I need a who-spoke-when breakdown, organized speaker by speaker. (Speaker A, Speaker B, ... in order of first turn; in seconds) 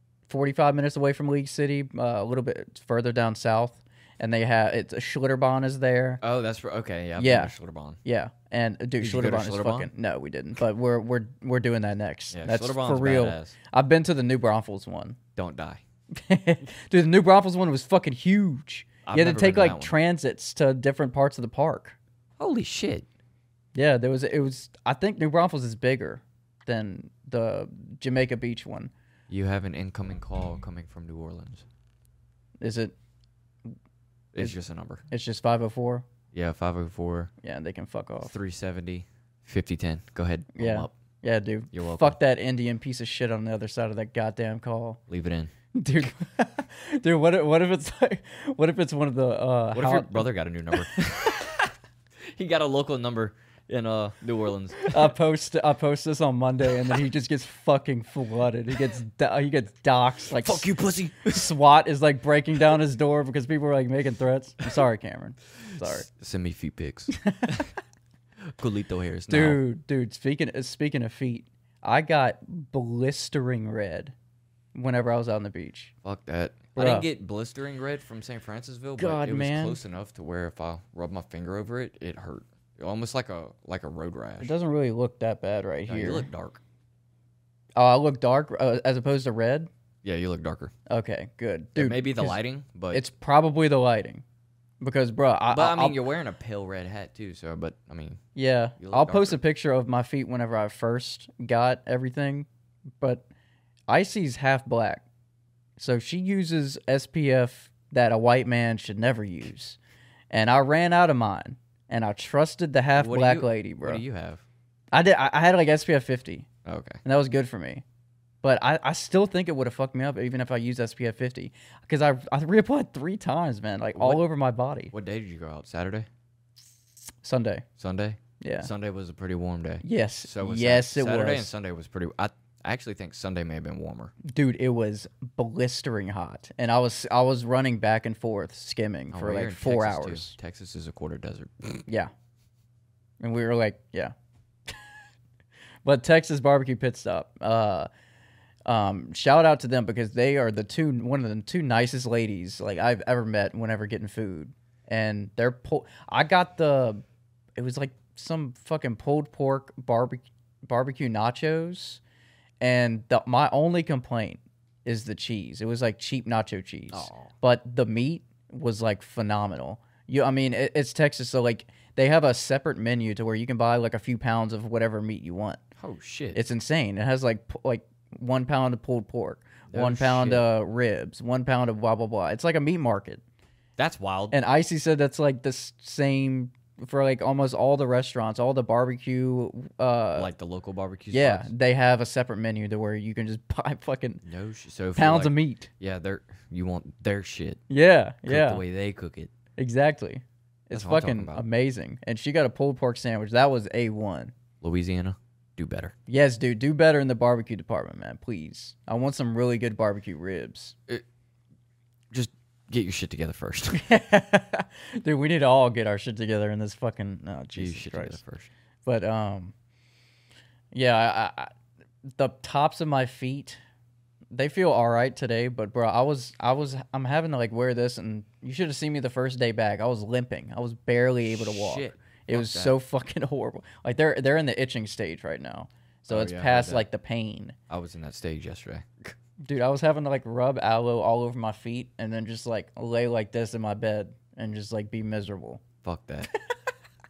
Speaker A: 0.3-6.2, 7.2-15.2, 16.1-22.0, 23.7-28.9, 32.6-32.9, 35.1-36.0, 37.4-38.3, 40.5-45.0, 45.7-50.2, 54.9-60.7, 61.2-66.1, 67.1-67.7, 69.3-74.1, 74.7-75.9, 76.8-77.1, 79.0-79.8, 84.4-86.3, 87.8-89.7, 90.9-92.4, 92.9-94.2, 94.8-96.0, 98.3-102.5, 103.9-105.0, 105.8-109.8, 110.3-114.0, 114.9-116.5, 117.0-117.8, 118.4-124.9, 127.2-127.6, 128.4-128.7, 129.8-131.5, 134.2-140.3, 143.2-144.1, 145.8-147.9, 148.7-157.0, 157.6-162.0, 162.6-175.6, 176.3-183.2, 184.3-190.3, 191.1-194.2, 194.9-195.7, 197.7-198.6, 199.6-204.3, 206.1-210.8, 213.7-218.2, 218.8-219.5, 220.7-221.5, 222.1-223.6, 224.3-237.6, 239.4-245.6
Speaker B: 6.2-8.0, 9.0-9.9, 12.3-13.5, 15.3-15.8, 19.1-19.9, 22.4-23.1, 29.3-31.6, 34.3-35.0, 36.3-37.3, 38.2-40.9, 41.7-42.2, 45.1-45.5, 49.7-51.7, 52.3-55.1, 60.4-61.5, 65.8-67.7, 68.6-69.6, 76.0-84.5, 85.8-86.6, 90.0-90.7, 91.8-93.0, 95.5-98.2, 98.8-99.4, 113.0-114.4, 116.6-117.0, 124.0-124.2, 124.9-126.1, 127.8-134.1, 139.1-141.8, 166.9-167.3, 175.8-176.4, 179.7-180.5, 183.8-184.4, 190.1-191.5, 194.2-197.6, 198.2-199.3, 200.7-201.4, 204.6-205.9, 212.1-213.8, 217.5-218.5, 231.2-232.8, 236.1-236.8, 237.7-239.1, 245.8-246.3